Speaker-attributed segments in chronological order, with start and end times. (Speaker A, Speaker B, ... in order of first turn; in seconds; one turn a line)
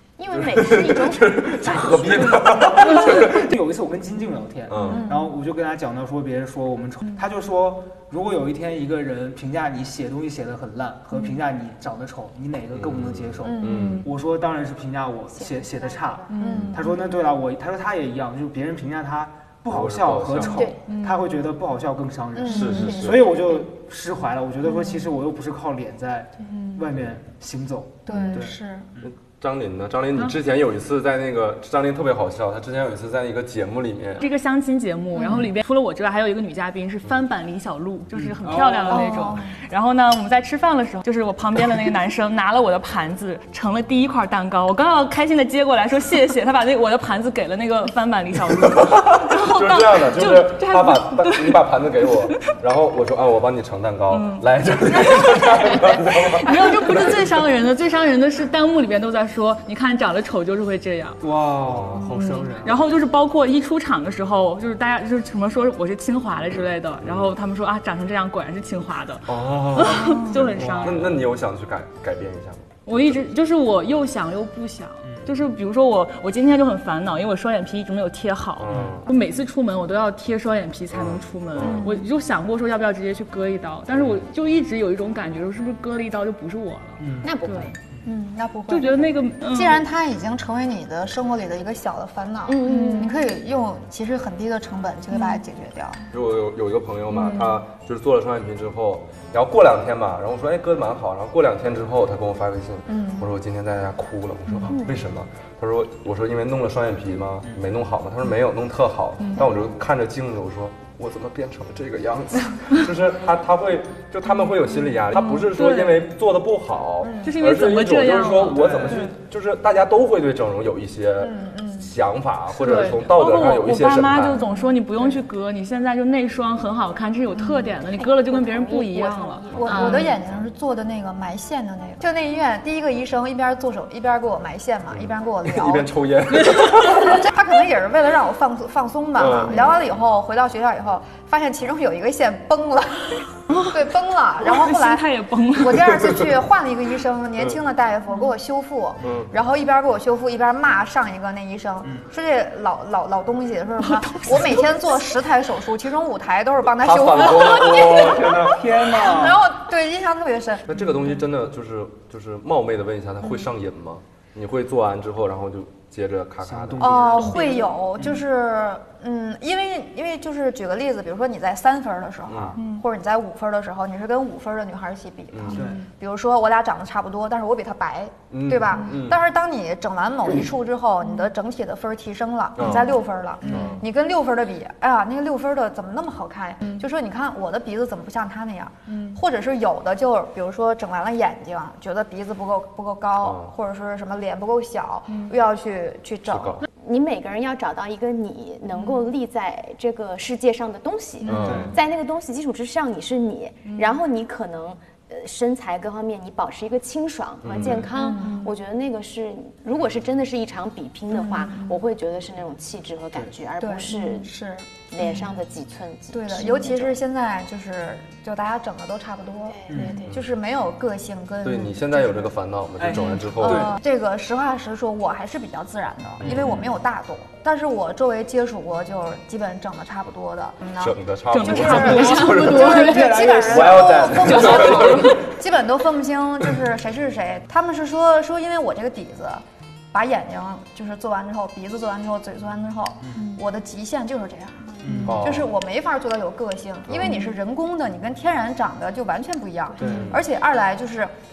Speaker A: 0.2-2.5
Speaker B: 0.3-3.5
Speaker C: 2.3-29.1
Speaker B: 4.7-5.0
Speaker D: 4.9-5.3
Speaker B: 12.7-14.1
Speaker D: 13.4-13.9
Speaker E: 13.6-14.1
Speaker A: 15.3-16.4
Speaker E: 16.3-17.0
Speaker D: 16.4-16.8
Speaker B: 19.7-20.7
Speaker E: 20.9-21.2
Speaker D: 22.4-23.0
Speaker B: 22.5-23.3
Speaker E: 22.5-23.1
Speaker E: 26.4-26.9
Speaker D: 28.1-28.9
Speaker E: 28.1-28.4
Speaker B: 29.0-34.3
Speaker E: 34.2-52.2
Speaker C: 38.1-39.4
Speaker D: 38.9-39.6
Speaker B: 48.6-57.2
Speaker E: 54.1-61.2
Speaker C: 61.2-62.8
Speaker B: 61.7-62.1
Speaker E: 62.0-71.2
Speaker B: 67.0-67.3
Speaker B: 69.3-73.3
Speaker C: 70.3-71.2
Speaker E: 72.9-87.8
Speaker C: 75.0-75.3
Speaker B: 78.6-79.1
Speaker C: 78.7-79.0
Speaker B: 80.9-81.9
Speaker D: 81.6-82.1
Speaker B: 83.9-84.2
Speaker C: 87.0-87.3
Speaker A: 87.2-87.7
Speaker D: 88.0-96.0
Speaker E: 88.7-89.8
Speaker A: 92.5-93.2
Speaker E: 92.6-93.1
Speaker E: 95.1-95.4
Speaker B: 96.1-124.4
Speaker E: 97.1-97.6
Speaker D: 102.9-103.3
Speaker E: 104.5-104.7
Speaker A: 104.7-105.0
Speaker E: 109.2-109.5
Speaker E: 114.3-116.1
Speaker D: 117.0-117.4
Speaker E: 117.2-119.1
Speaker C: 118.5-119.1
Speaker D: 121.2-121.9
Speaker E: 122.6-130.1
Speaker C: 122.6-122.9
Speaker D: 124.3-125.1
Speaker A: 127.8-130.2
Speaker D: 129.6-135.9
Speaker B: 134.9-137.3
Speaker D: 136.9-160.7
Speaker B: 139.2-139.6
Speaker E: 143.5-143.8
Speaker E: 144.4-145.9
Speaker B: 149.0-149.3
Speaker E: 153.9-154.6
Speaker B: 156.8-158.7
Speaker C: 158.3-159.4
Speaker B: 160.7-167.3
Speaker C: 166.4-168.2
Speaker D: 166.8-196.6
Speaker B: 172.3-172.6
Speaker E: 172.6-172.8
Speaker B: 175.3-175.7
Speaker C: 175.5-175.8
Speaker E: 175.5-175.8
Speaker B: 178.3-179.2
Speaker B: 182.6-182.9
Speaker B: 183.5-183.8
Speaker E: 188.9-189.2
Speaker B: 193.2-193.5
Speaker E: 195.1-195.3
Speaker B: 196.3-196.7
Speaker A: 196.8-214.3
Speaker B: 201.3-201.8
Speaker C: 201.4-201.8
Speaker B: 207.4-207.9
Speaker D: 207.9-208.5
Speaker E: 208.2-208.5
Speaker D: 211.2-211.7
Speaker D: 213.6-215.2
Speaker A: 214.9-217.0
Speaker D: 216.1-222.3
Speaker A: 219.5-220.2
Speaker C: 219.7-220.0
Speaker B: 221.4-223.8
Speaker C: 222.8-223.7
Speaker D: 223.3-251.1
Speaker B: 226.2-226.7
Speaker B: 230.8-235.2
Speaker E: 231.3-233.3
Speaker C: 232.4-234.5
Speaker E: 234.2-235.2
Speaker C: 244.8-245.2
Speaker B: 245.1-245.5
Speaker B: 246.9-247.2
Speaker C: 249.8-250.2